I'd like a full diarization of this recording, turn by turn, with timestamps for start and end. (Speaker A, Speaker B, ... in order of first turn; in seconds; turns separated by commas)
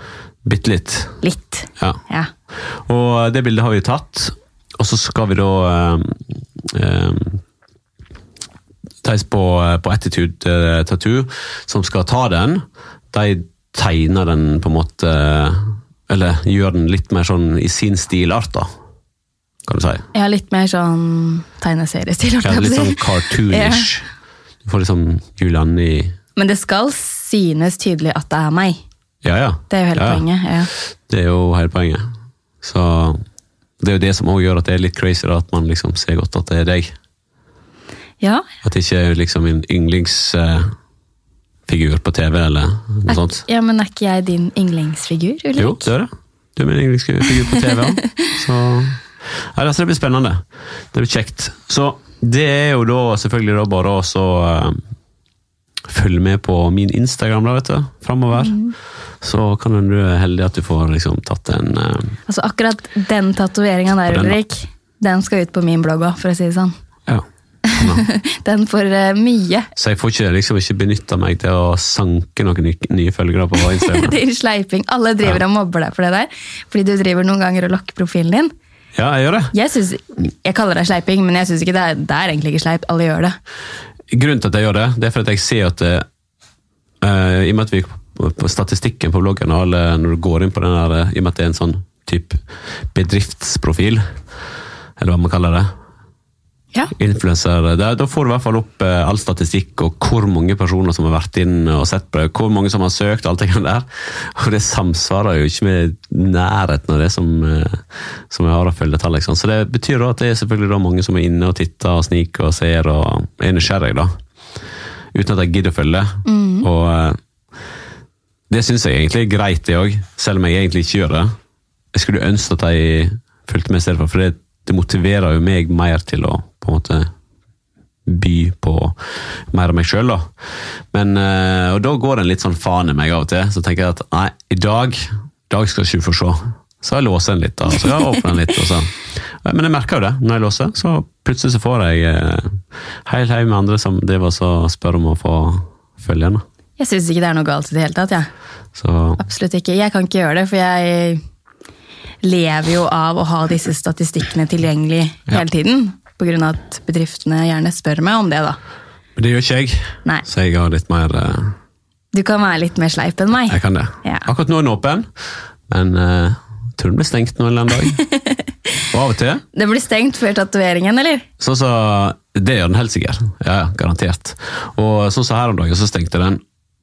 Speaker A: 0.4-1.2, Speaker B: 1.2-2.3, Speaker A: 2.7-7.4, Speaker A: 9.0-18.7, Speaker A: 19.7-20.1, Speaker B: 20.1-23.9, Speaker A: 22.4-24.1, Speaker A: 24.6-26.1, Speaker B: 26.4-28.8, Speaker A: 29.2-30.2, Speaker B: 29.7-30.7, Speaker A: 31.1-32.0, Speaker A: 32.6-33.2, Speaker A: 33.8-36.9, Speaker A: 38.6-40.7, Speaker A: 41.7-43.4, Speaker B: 43.1-45.9, Speaker A: 45.6-54.8, Speaker A: 55.9-58.6, Speaker B: 58.3-58.7, Speaker A: 59.2-62.1, Speaker B: 62.3-66.8, Speaker A: 64.1-64.4, Speaker A: 67.1-68.0, Speaker B: 67.7-69.7, Speaker A: 69.8-74.2, Speaker B: 73.6-78.5, Speaker A: 79.0-79.5, Speaker B: 79.5-83.4, Speaker A: 84.1-86.0, Speaker A: 87.0-92.4, Speaker A: 92.9-94.0, Speaker A: 95.0-95.7, Speaker A: 97.0-114.1, Speaker A: 115.1-117.2, Speaker B: 116.2-116.7, Speaker A: 118.5-121.3, Speaker A: 121.9-127.1, Speaker A: 128.1-129.0, Speaker A: 129.5-130.3, Speaker A: 130.9-146.4, Speaker B: 146.8-148.3, Speaker A: 148.8-149.2, Speaker B: 149.2-151.2, Speaker B: 152.2-158.6, Speaker A: 159.2-161.6, Speaker B: 162.1-164.3, Speaker A: 163.5-165.1, Speaker A: 165.7-168.0, Speaker B: 168.0-168.5, Speaker A: 168.9-169.4, Speaker B: 169.5-171.3, Speaker A: 171.4-176.4